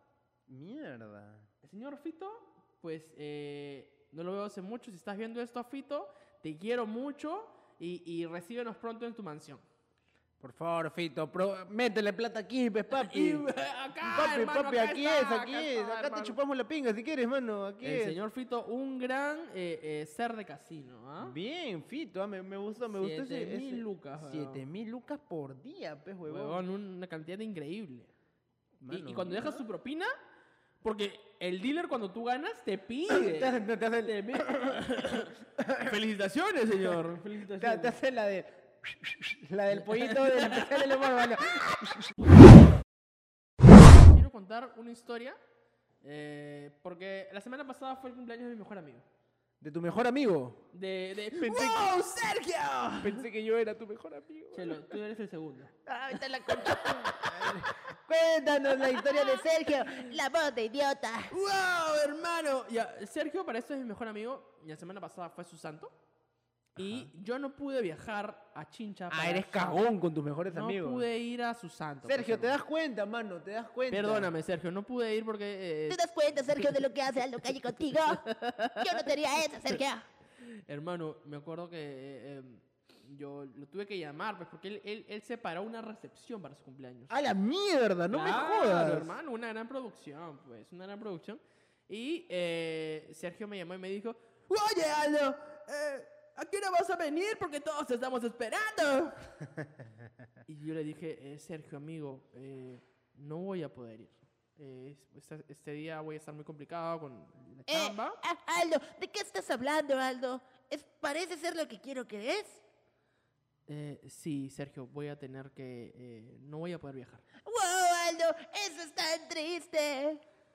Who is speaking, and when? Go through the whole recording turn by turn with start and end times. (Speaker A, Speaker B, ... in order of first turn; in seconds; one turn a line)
Speaker A: 0.5-1.5
Speaker B: 1.6-9.7
Speaker A: 10.4-13.5
Speaker B: 12.9-16.4
Speaker A: 14.0-18.2
Speaker B: 17.8-21.4
Speaker A: 21.2-26.6
Speaker B: 22.9-24.6
Speaker B: 26.3-28.1
Speaker A: 28.8-29.6
Speaker B: 28.9-30.1
Speaker B: 30.8-38.0
Speaker A: 33.1-36.0
Speaker A: 36.8-42.1
Speaker B: 39.8-41.2
Speaker B: 44.0-45.4
Speaker B: 46.0-49.0
Speaker A: 49.6-50.6
Speaker B: 50.7-53.2
Speaker A: 51.3-51.9
Speaker A: 53.0-54.9
Speaker B: 54.5-55.8
Speaker C: 55.9-57.3
Speaker B: 56.5-57.5
Speaker A: 56.7-59.5
Speaker C: 58.7-61.3
Speaker B: 61.3-65.9
Speaker B: 66.8-69.8
Speaker A: 66.8-67.1
Speaker A: 69.1-71.1
Speaker B: 70.5-72.6
Speaker A: 72.0-74.3
Speaker B: 73.9-76.0
Speaker C: 75.9-80.1
Speaker B: 80.4-87.1
Speaker A: 87.1-89.2
Speaker B: 88.1-99.3
Speaker B: 100.5-108.2
Speaker C: 107.7-112.6
Speaker B: 113.7-117.2
Speaker C: 117.5-120.2